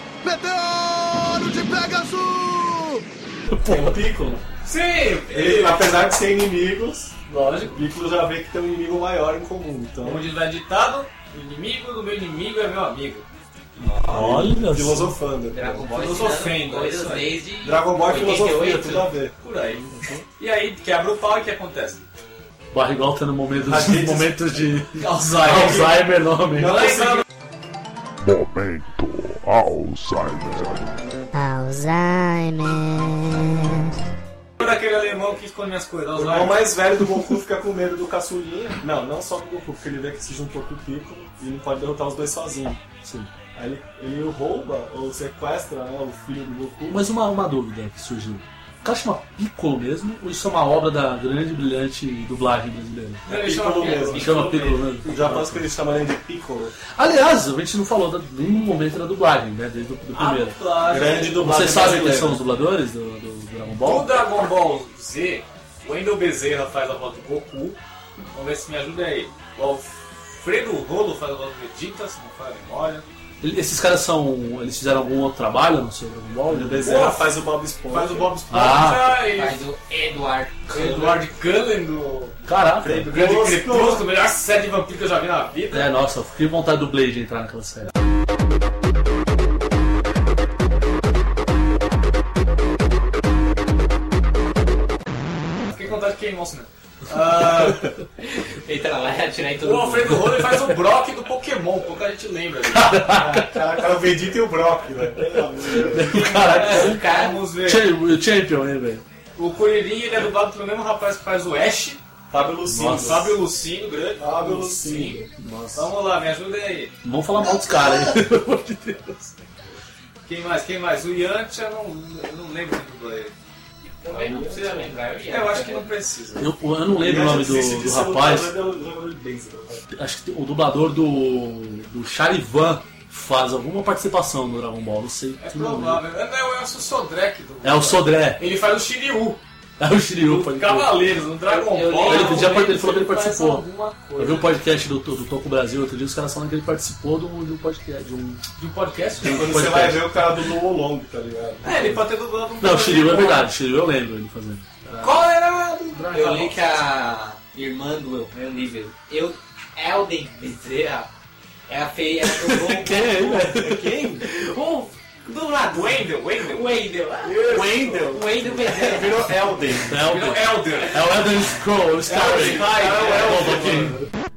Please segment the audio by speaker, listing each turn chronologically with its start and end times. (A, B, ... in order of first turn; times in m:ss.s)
0:03.6-0:04.0 A
0:03.6-0:04.4 B
0:04.6-0:06.0 C
0:05.3-0:07.2 B
0:07.3-0:07.8 C
0:07.7-0:10.3 B
0:10.0-0:13.2 C
0:13.8-0:15.2 A
0:14.0-0:16.0 B
0:15.5-0:19.1 D
0:15.7-0:17.5 C
0:17.6-0:20.2 B
0:19.4-0:22.0 C
0:22.7-0:26.9 A
0:23.6-0:24.7 B
0:25.0-0:26.0 C
0:26.6-0:27.2 B
0:26.6-0:27.2 C
0:28.2-0:30.9 E
0:31.3-0:33.9 F
0:34.6-0:36.7 C
0:36.2-0:42.8 B
0:43.0-0:43.3 A
0:43.5-0:47.0 B
0:46.9-0:53.2 A
0:53.2-0:54.9 C
0:53.2-0:56.8 B
0:53.9-0:55.7 A
0:57.0-1:04.1 A
1:00.1-1:01.4 C
1:00.9-1:02.4 B
1:03.8-1:07.8 C
1:08.3-1:13.0 C
1:13.4-1:17.0 A
1:16.5-1:18.3 B
1:16.8-1:17.3 C
1:17.9-1:19.6 C
1:18.5-1:19.2 A
1:19.2-1:20.7 D
1:20.7-1:25.9 C
1:20.7-1:21.2 B
1:22.4-1:23.1 A
1:22.8-1:24.1 B
1:25.7-1:27.9 A
1:35.7-1:37.9 C
1:38.5-1:40.3 D
1:39.5-1:43.2 C
1:40.2-1:40.5 A
1:42.7-1:43.5 A
1:43.1-1:46.2 B
1:45.8-1:49.0 A
1:46.0-1:47.9 C
1:46.3-1:47.4 D
1:49.4-1:52.0 C
1:52.3-1:53.4 B
1:52.7-1:53.3 A
1:52.8-1:55.2 C
1:54.1-1:55.3 B
1:55.4-1:55.9 A
1:55.7-1:56.9 C
1:57.0-1:59.3 A
2:00.2-2:03.3 C
2:04.0-2:05.9 D
2:04.1-2:04.9 B
2:05.2-2:06.5 C
2:06.4-2:08.5 A
2:06.9-2:09.8 B
2:09.9-2:16.0 A
2:15.4-2:19.4 C
2:17.6-2:18.4 A
2:19.8-2:20.9 A
2:20.2-2:24.6 C
2:21.4-2:22.8 D
2:22.0-2:28.4 A
2:28.6-2:29.6 C
2:29.2-2:31.7 B
2:29.2-2:30.1 A
2:31.6-2:33.5 C
2:31.7-2:32.0 A
2:32.6-2:35.0 A
2:35.0-2:36.8 C
2:36.0-2:41.1 D
2:41.7-2:43.4 D
2:42.2-2:43.9 A
2:43.3-2:44.2 B
2:44.2-2:49.2 D
2:45.3-2:46.9 C
2:47.2-2:50.0 B
2:47.7-2:48.1 C
2:49.9-2:54.1 A
2:50.0-2:51.1 C
2:52.1-2:53.9 C
2:52.1-2:54.0 B